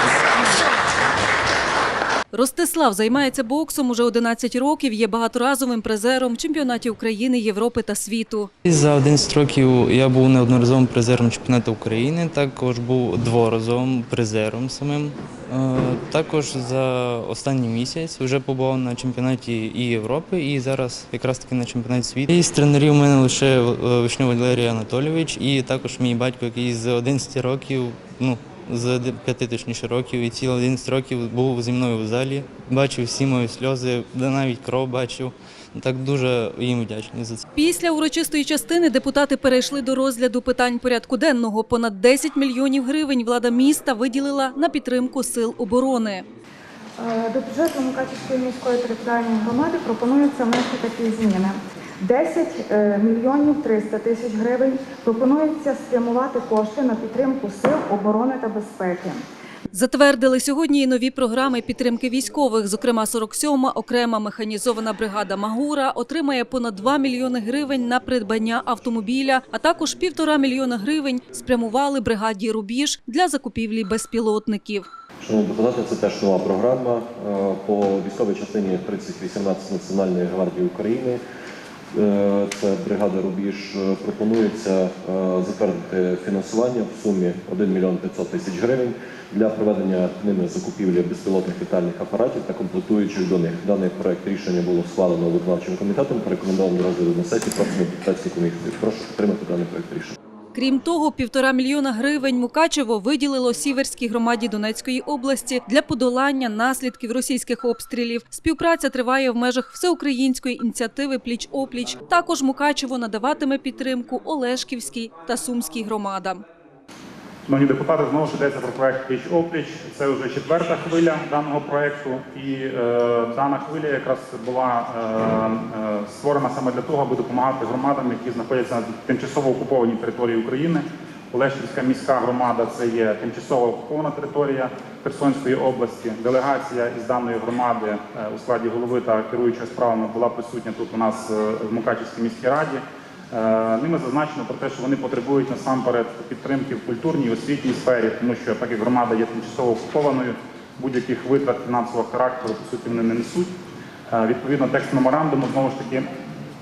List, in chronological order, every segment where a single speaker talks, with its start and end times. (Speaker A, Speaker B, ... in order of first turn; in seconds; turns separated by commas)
Speaker A: 2.3-8.5, Speaker B: 8.6-37.4, Speaker A: 37.5-46.2, Speaker C: 47.0-59.2, Speaker A: 59.7-74.9, Speaker D: 75.2-81.2, Speaker D: 81.9-100.1, Speaker A: 100.5-116.4, Speaker E: 117.5-153.5, Speaker E: 154.1-156.1